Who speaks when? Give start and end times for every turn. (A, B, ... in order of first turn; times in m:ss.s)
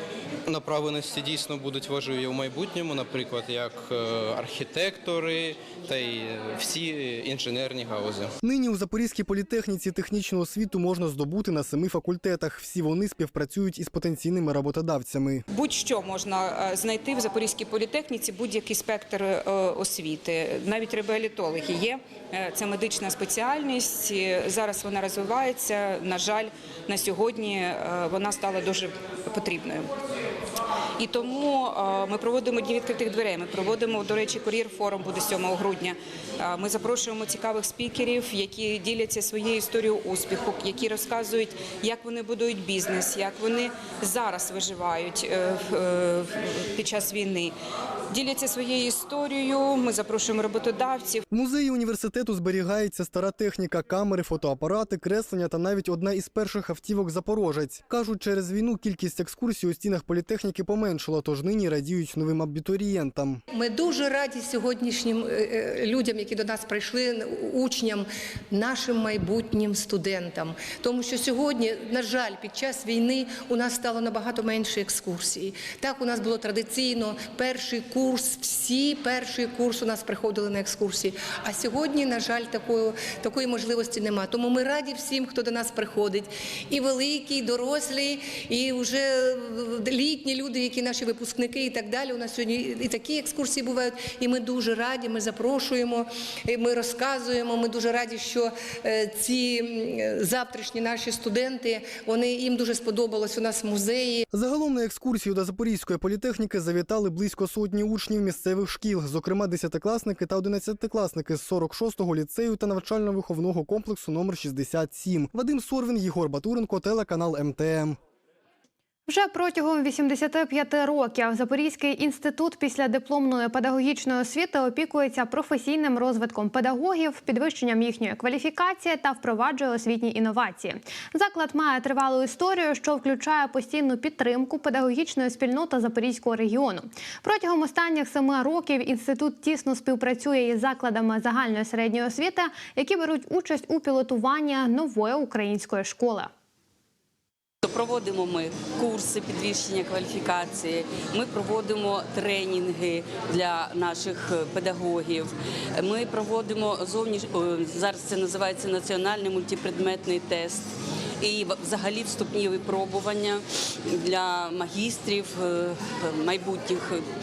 0:00.5-0:08.3 A
0:08.4-0:15.4 B
0:15.5-0:29.9 C
0:31.0-0:47.5 C
0:48.1-0:51.2 C
0:51.3-1:03.4 B
1:03.5-1:44.2 D
1:44.3-1:58.0 B
1:59.1-2:26.3 E
2:27.6-2:40.7 F
2:41.2-2:47.0 F